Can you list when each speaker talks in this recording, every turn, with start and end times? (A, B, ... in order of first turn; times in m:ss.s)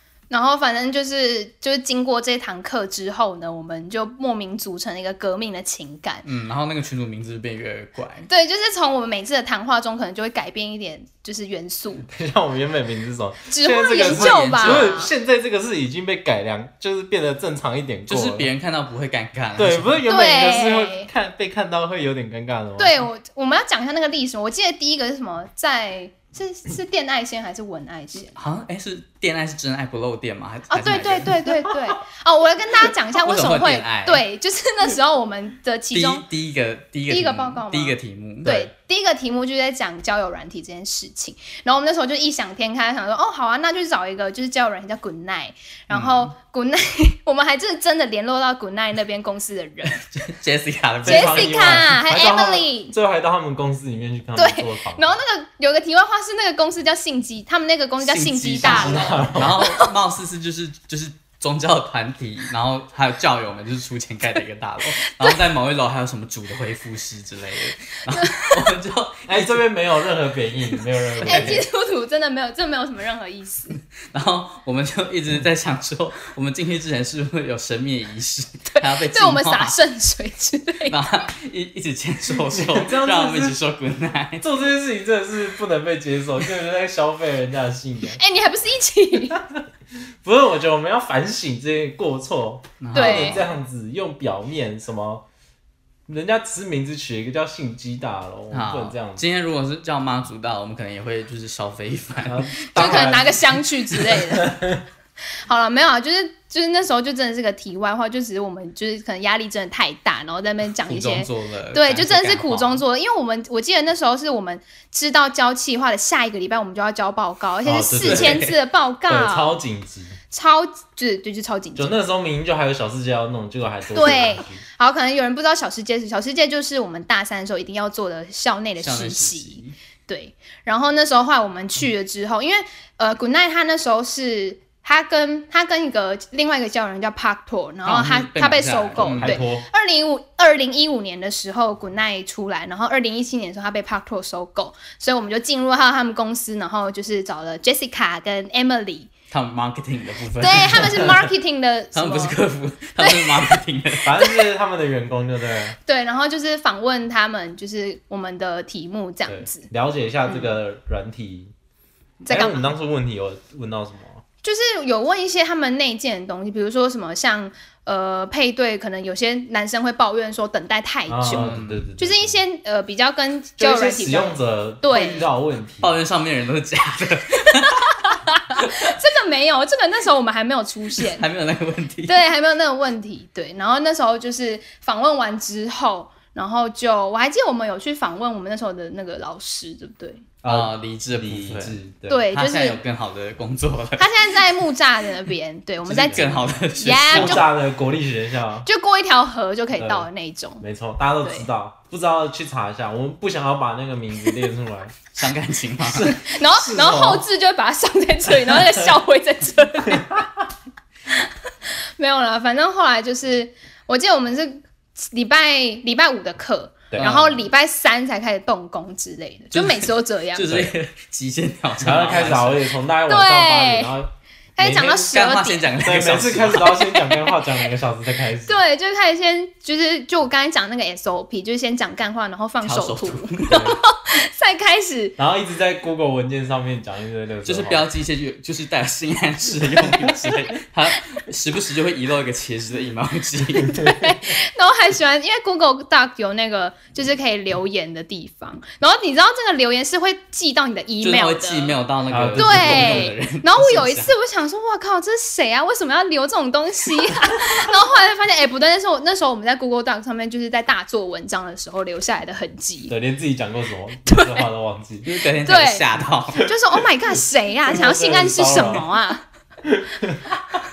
0:00.3-0:06.2 A
0:06.2-0:08.3 B
0:08.3-0:12.1 A
0:12.0-0:18.5 C
0:13.5-0:15.1 A
0:13.9-0:14.9 B
0:18.1-0:20.0 B
0:19.6-0:22.9 C
0:20.1-0:21.1 A
0:22.8-0:28.5 A
0:28.4-0:31.4 B
0:30.7-0:36.2 A
0:33.2-0:34.2 B
0:35.9-0:38.7 B
0:37.1-0:50.0 A
0:45.9-0:46.3 B
0:50.0-0:51.8 B
0:51.0-0:55.2 C
0:51.0-0:52.9 A
0:54.4-0:59.9 A
0:58.0-1:09.6 B
0:58.6-0:59.6 C
1:05.0-1:05.4 A
1:08.1-1:08.7 A
1:09.3-1:11.6 C
1:11.2-1:11.6 B
1:11.2-1:13.8 A
1:14.0-1:19.7 B
1:18.7-1:21.0 A
1:20.9-1:24.4 B
1:22.4-1:23.6 C
1:24.4-1:28.2 C
1:28.2-1:29.4 A
1:29.3-1:29.6 C
1:30.2-1:35.2 C
1:32.8-1:33.4 B
1:32.9-1:33.4 A
1:36.1-1:39.2 C
1:38.5-1:43.0 B
1:42.2-1:44.8 C
1:42.7-1:44.6 A
1:45.4-1:59.6 A
1:50.8-1:52.8 B
1:57.6-1:58.5 C
1:58.0-1:58.5 B
1:59.1-2:00.2 C
2:00.3-2:02.0 A
2:01.8-2:04.6 C
2:03.9-2:29.1 A
2:08.8-2:09.7 B
2:17.8-2:19.4 B
2:19.0-2:19.7 C
2:29.3-2:31.2 B
2:30.4-2:32.4 A
2:31.9-2:34.2 B
2:33.0-2:33.6 A
2:34.0-2:35.8 C
2:35.8-2:39.7 A
2:39.3-2:41.5 C
2:40.2-2:40.5 A
2:42.2-2:42.7 A
2:42.3-2:44.2 C
2:44.4-2:55.3 A
2:51.1-2:52.4 C
2:51.3-2:51.9 B
2:53.6-2:56.0 C
2:55.8-2:58.0 B
2:57.7-3:01.2 A
3:01.0-3:02.2 B
3:02.1-3:10.2 A
3:10.4-3:12.2 C
3:10.5-3:11.8 B
3:12.1-3:12.8 A
3:12.3-3:14.1 B
3:14.0-3:17.5 A
3:15.8-3:17.5 B
3:16.0-3:16.5 C
3:17.1-3:18.7 C
3:18.6-3:20.6 A
3:19.8-3:20.1 C
3:20.6-3:25.0 C
3:21.2-3:21.5 A
3:25.1-3:26.1 B
3:25.9-3:27.2 C
3:26.0-3:30.2 A
3:28.5-3:28.9 C
3:29.9-3:30.3 C
3:31.1-3:40.6 A
3:37.0-3:37.4 B
3:39.5-3:42.6 B
3:41.8-3:45.1 C
3:43.1-3:43.9 A
3:44.6-3:45.7 A
3:45.1-3:46.9 B
3:45.8-3:48.6 C
3:47.0-3:47.3 A
3:48.5-3:55.2 A
3:52.6-3:53.7 B
3:55.2-3:57.9 C
3:57.4-4:03.8 B
3:59.8-4:00.3 C
4:03.6-4:11.8 A
4:11.0-4:14.1 B
4:12.1-4:13.1 C
4:12.4-4:22.9 A
4:22.9-4:25.1 C
4:24.0-4:24.5 A
4:25.0-4:26.5 B
4:25.4-4:25.8 A
4:26.4-4:29.2 A
4:27.6-4:28.8 C
4:29.7-4:30.4 C